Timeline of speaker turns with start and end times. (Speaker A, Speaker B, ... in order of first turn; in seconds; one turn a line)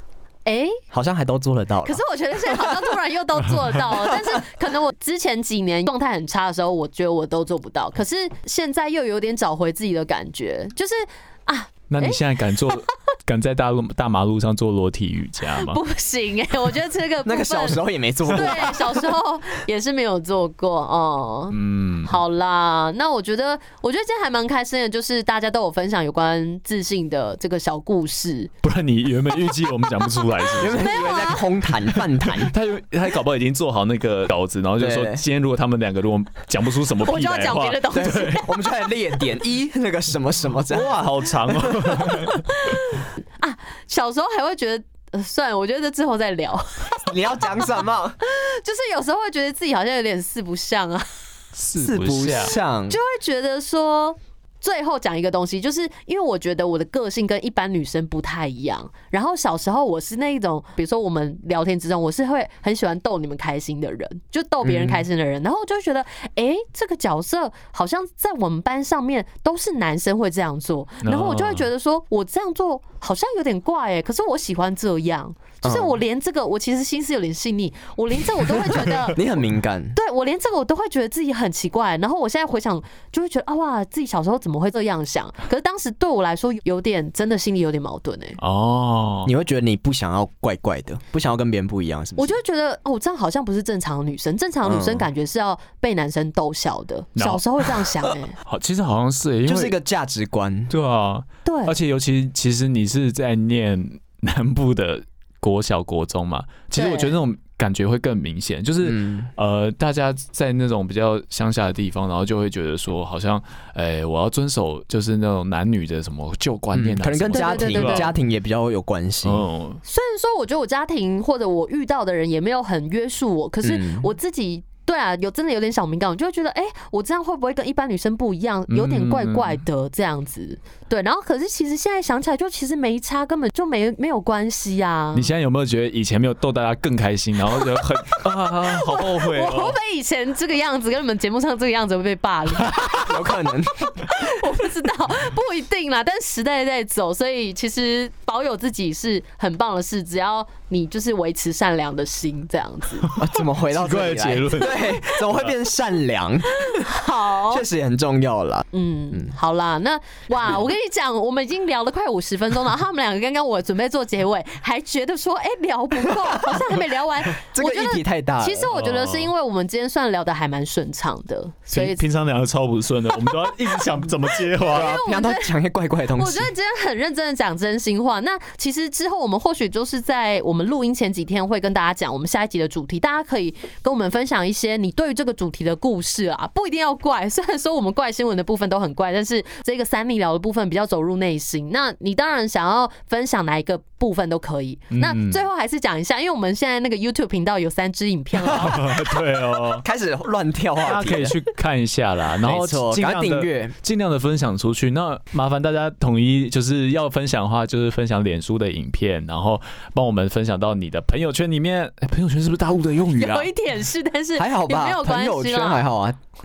Speaker A: 0.5-0.8
Speaker B: 0.9-2.0
Speaker A: 1.9-12.2
Speaker C: 11.9-15.8
Speaker A: 15.6-28.5
Speaker B: 17.2-19.0
Speaker C: 21.5-22.2
Speaker C: 28.6-30.9
Speaker A: 29.9-31.5
Speaker B: 30.6-32.5
Speaker C: 31.9-38.4
Speaker B: 34.8-35.2
Speaker A: 37.0-38.6
Speaker B: 37.9-41.0
Speaker C: 40.7-42.4
Speaker B: 41.5-42.3
Speaker A: 42.5-47.7
Speaker B: 47.1-48.2
Speaker A: 48.2-51.1
Speaker C: 51.6-52.6
Speaker B: 51.8-53.0
Speaker A: 52.9-79.4
Speaker B: 64.6-65.0
Speaker C: 71.0-71.7
Speaker B: 75.6-76.0
Speaker B: 79.1-80.0
Speaker A: 79.9-88.4
Speaker C: 88.4-89.3
Speaker B: 89.3-92.4
Speaker A: 92.2-98.4
Speaker B: 94.6-95.1
Speaker C: 97.2-97.8
Speaker C: 98.4-99.8
Speaker B: 99.5-100.7
Speaker C: 100.7-118.1
Speaker A: 101.5-101.7
Speaker A: 106.8-107.1
Speaker B: 108.8-109.3
Speaker B: 116.7-119.5
Speaker A: 117.3-118.2
Speaker C: 119.2-119.8
Speaker A: 119.8-135.3
Speaker B: 123.6-124.1
Speaker C: 128.7-129.6
Speaker C: 135.1-139.8
Speaker A: 138.4-143.2
Speaker B: 142.7-143.9
Speaker A: 143.8-153.1
Speaker C: 153.1-155.6
Speaker B: 153.2-156.8
Speaker A: 154.6-154.9
Speaker A: 156.6-157.7
Speaker B: 157.5-159.3
Speaker A: 158.7-172.1
Speaker B: 167.3-168.7
Speaker C: 168.7-169.3
Speaker C: 171.7-175.0
Speaker A: 174.6-175.5
Speaker B: 174.7-176.5
Speaker A: 176.2-199.0
Speaker C: 194.9-195.4
Speaker C: 198.5-199.8
Speaker B: 198.5-201.3
Speaker C: 200.8-213.5
Speaker B: 202.4-203.8
Speaker A: 213.1-215.8
Speaker B: 214.4-216.2